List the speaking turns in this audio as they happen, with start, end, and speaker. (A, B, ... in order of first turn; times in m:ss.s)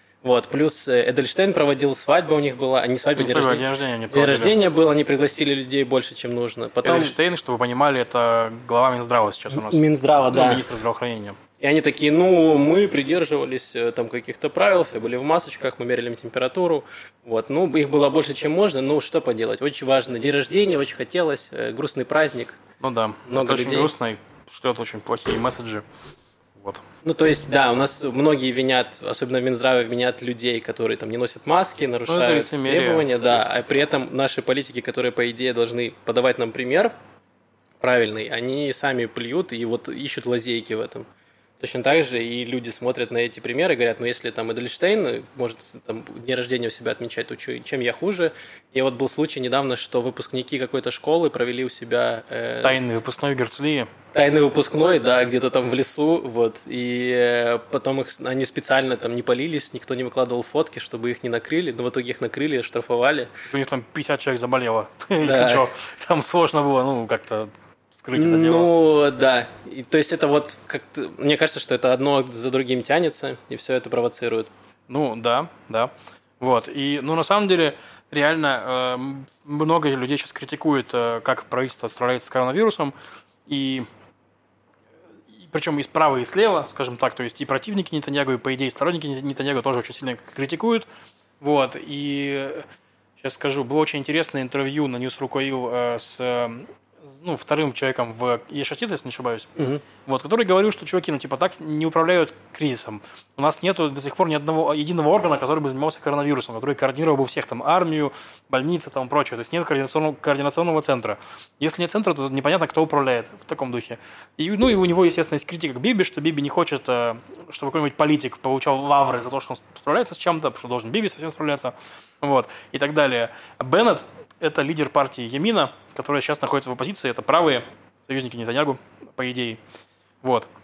0:00.2-0:07.2 A
0:03.2-0:04.5 B
0:06.8-0:11.4 B
0:09.5-0:10.7 A
0:11.6-0:22.6 A
0:22.8-0:25.9 B
0:23.2-0:23.9 A
0:26.6-0:26.8 B
0:27.0-0:36.9 A
0:32.1-0:33.8 B
0:37.8-0:41.1 A
0:41.6-0:52.8 A
0:52.6-0:53.9 B
0:54.1-1:03.3 A
1:03.5-1:08.7 B
1:05.2-1:05.6 A
1:08.1-1:14.5 A
1:14.9-1:22.9 B
1:23.5-1:23.9 B
1:25.3-1:30.9 B
1:31.4-1:32.7 B
1:33.2-1:39.5 B
1:39.6-1:39.8 A
1:40.0-2:09.6 B
2:10.2-2:10.5 B